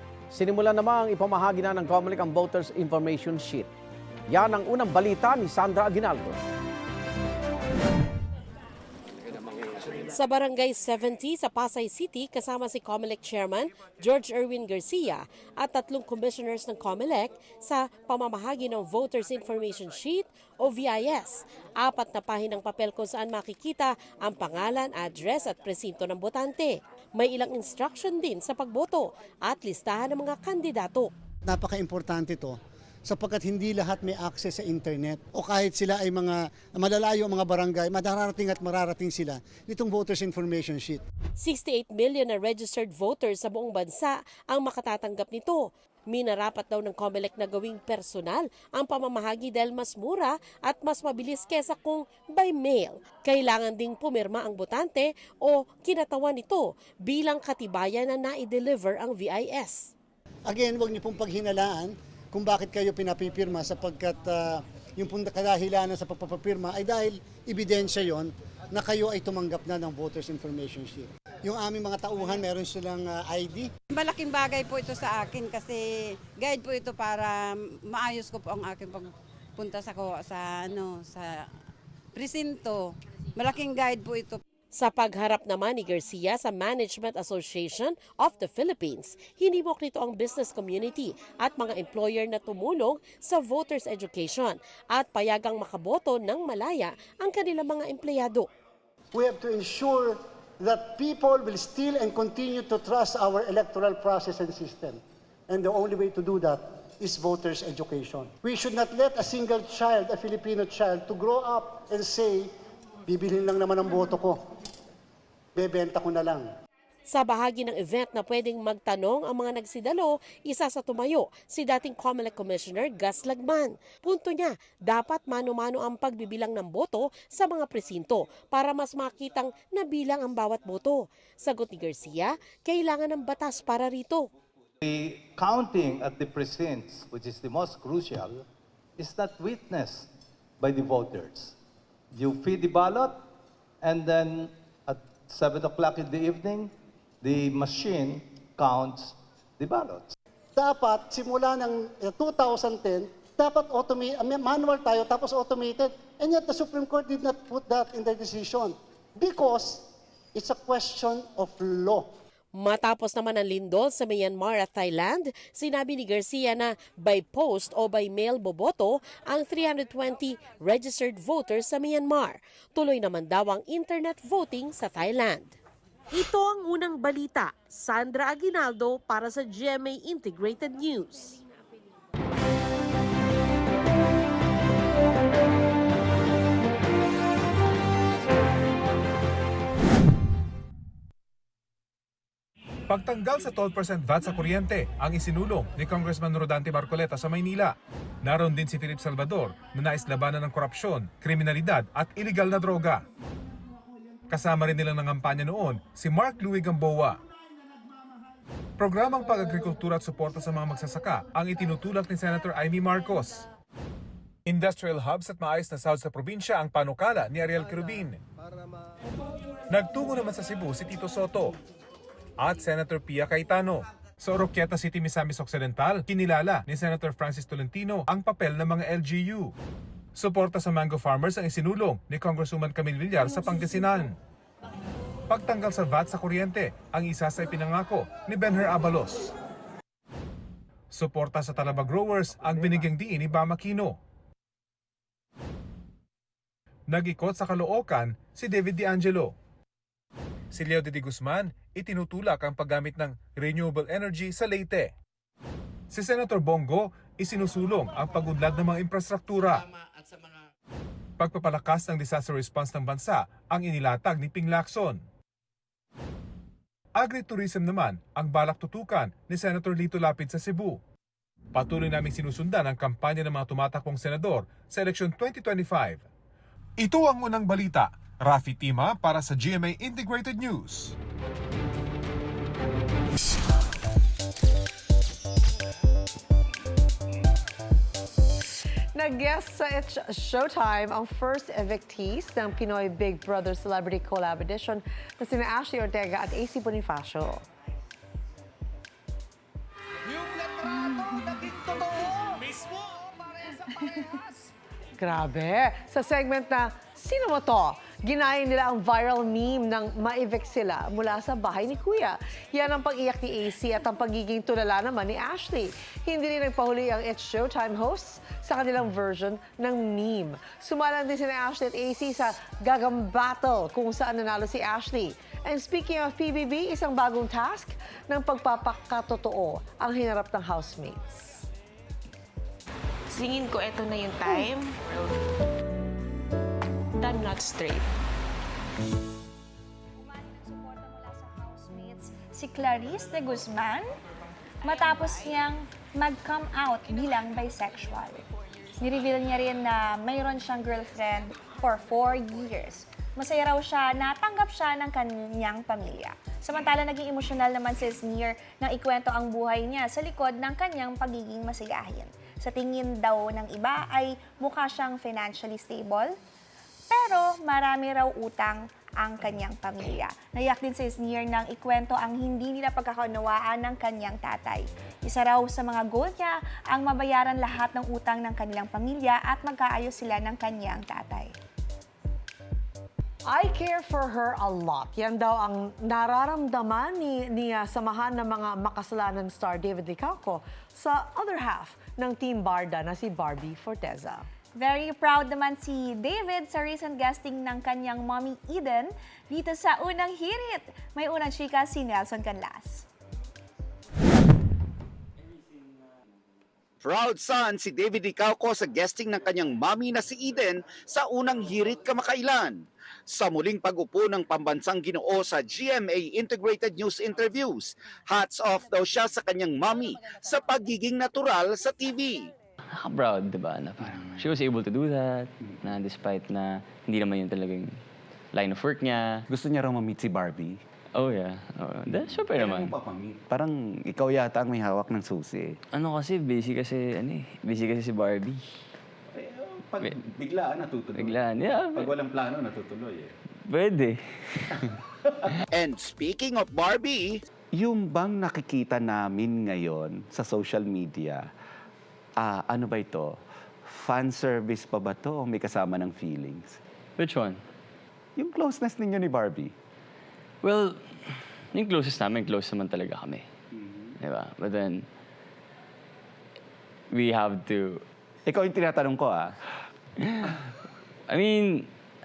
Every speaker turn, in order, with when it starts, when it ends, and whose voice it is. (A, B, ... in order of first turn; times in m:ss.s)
0:00.3-0:03.7 A
0:04.3-0:06.4 A
0:10.0-0:31.1 B
0:31.5-0:32.5 C
0:33.0-0:41.0 C
0:41.4-0:59.9 B
1:00.5-1:13.7 C
1:14.0-1:21.5 D
1:22.1-1:24.4 D
1:24.7-1:38.5 B
1:39.1-1:52.5 C
1:53.1-1:54.4 C
1:55.6-1:56.4 C
1:57.1-2:14.3 B
2:14.8-2:18.4 E
2:19.0-2:20.1 E
2:20.6-2:21.5 E
2:22.1-2:23.2 E
2:23.8-2:26.7 E
2:27.2-2:30.1 E
2:30.6-2:39.8 C
2:40.3-2:42.1 C
2:42.5-2:55.6 B
2:56.1-3:01.4 B
3:12.9-3:23.0 F
3:24.3-3:27.2 F
3:28.8-3:33.4 F
3:34.4-3:38.2 F
3:39.7-3:41.6 F
3:42.4-3:49.5 F
3:50.1-3:54.1 F
3:55.3-3:59.2 F
4:00.9-4:04.0 F
4:06.9-4:09.3 F
4:10.5-4:14.9 F
4:15.9-4:19.6 F
4:21.2-4:25.0 F
4:27.0-4:30.8 F
4:31.5-4:36.0 F
4:36.8-4:41.0 F
4:48.9-4:57.4 G
5:00.7-5:01.4 H
5:01.8-5:02.2 G
5:05.0-5:31.1 G
5:33.1-5:35.2 I
5:37.0-5:37.9 I
5:40.0-5:43.9 H
5:44.6-5:48.2 H
5:48.8-6:06.1 H
6:06.9-6:21.3 H
6:23.2-6:34.2 G
6:34.6-6:42.8 H
6:46.8-7:02.3 J
7:02.8-7:07.7 K
7:08.3-7:09.2 K
7:09.3-7:10.6 L
7:11.0-7:12.8 K
7:11.9-7:15.6 L
7:15.7-7:18.4 K
7:19.1-7:21.2 L
7:20.9-7:22.0 K
7:21.8-7:23.1 L
7:23.5-7:24.6 K
7:25.5-7:27.2 J
7:27.5-7:31.2 L
7:32.2-7:36.6 L
7:37.0-7:37.4 K
7:38.2-7:39.5 L
7:40.4-7:43.2 K
7:44.0-7:44.8 K
7:46.9-7:47.8 K
7:48.2-7:49.4 L
7:50.0-7:50.4 K
7:51.1-7:51.7 K